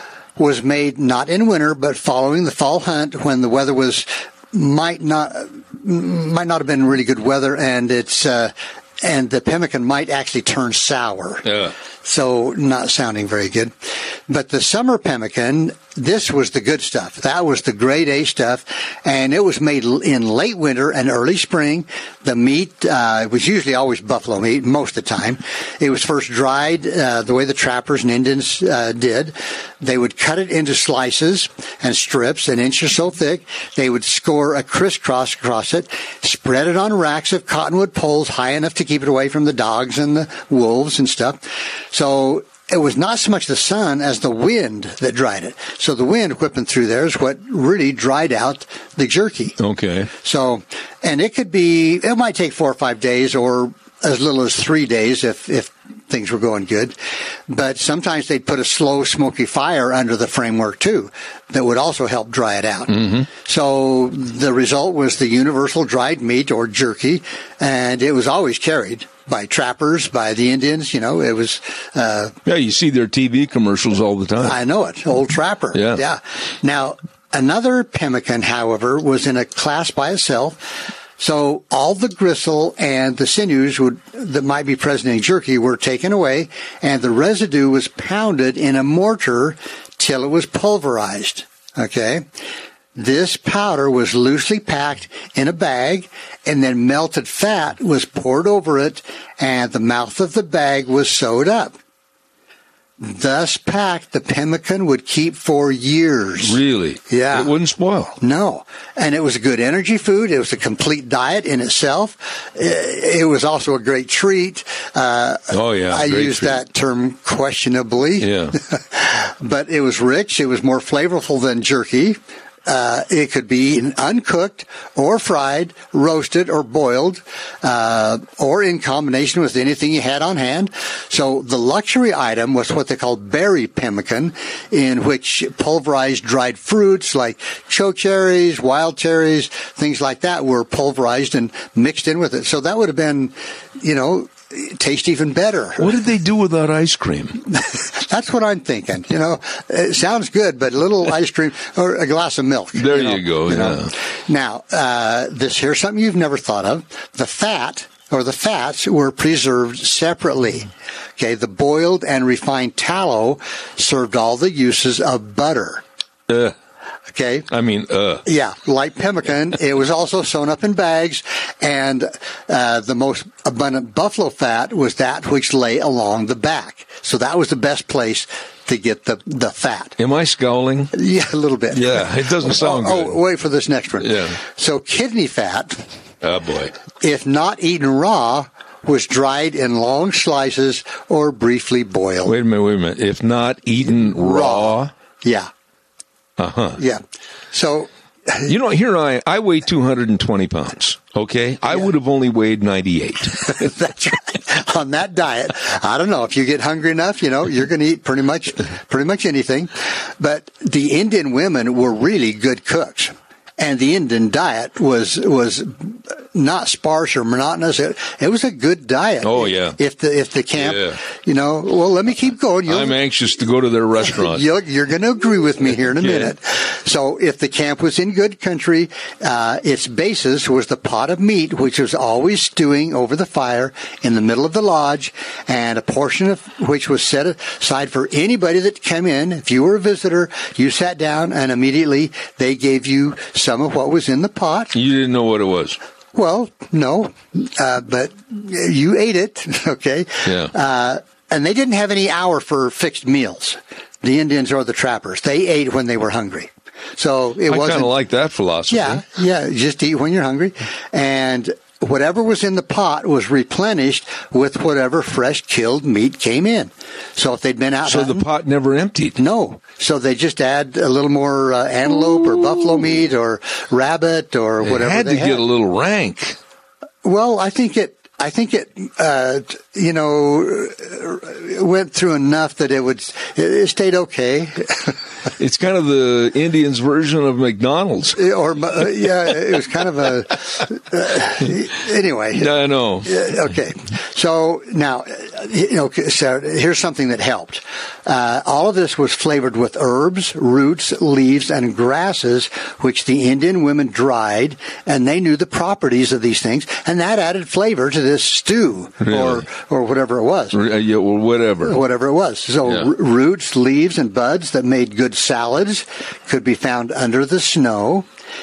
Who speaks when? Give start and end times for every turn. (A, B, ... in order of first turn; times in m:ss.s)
0:00.4-0:11.5 A
0:11.4-0:11.7 B
0:12.0-0:49.6 A
0:49.6-0:50.1 B
0:50.1-0:57.0 A
0:57.5-1:12.4 A
1:02.9-1:03.2 B
1:12.4-1:14.6 B
1:14.4-1:32.2 A
1:15.7-1:16.0 B
1:32.9-1:41.8 A
1:43.0-1:47.5 A
1:46.4-1:48.2 B
1:48.2-2:25.9 A
1:55.5-1:56.6 B
1:58.2-1:58.6 B
2:25.8-2:27.4 B
2:27.5-2:45.8 A
2:32.8-2:33.9 B
2:46.3-2:46.5 B
2:47.1-2:47.5 A
2:47.5-2:48.2 B
2:48.2-3:00.0 A
3:00.0-3:00.9 B
3:00.9-3:05.9 A
3:01.7-3:03.2 B
3:04.0-3:04.4 B
3:06.2-3:06.8 B
3:07.0-3:12.4 A
3:12.2-3:14.9 B
3:14.0-3:15.5 A
3:16.4-3:16.8 B
3:16.8-3:18.5 A
3:18.4-3:23.7 B
3:23.4-3:43.0 A
3:39.2-3:39.8 B
3:40.6-3:41.0 B
3:42.7-3:44.5 B
3:44.0-4:04.8 A
3:45.9-3:46.3 B
4:04.7-4:05.8 B
4:06.1-4:17.9 A
4:10.2-4:10.5 B
4:17.5-4:19.0 B
4:18.7-4:28.3 A
4:27.8-4:29.2 B
4:29.2-4:35.4 A
4:34.6-4:36.4 B
4:37.0-4:45.0 A
4:45.4-4:48.2 B
4:48.2-5:10.6 A
4:52.3-4:53.3 B
5:09.0-5:09.4 B
5:10.5-5:11.8 B
5:11.6-5:18.1 A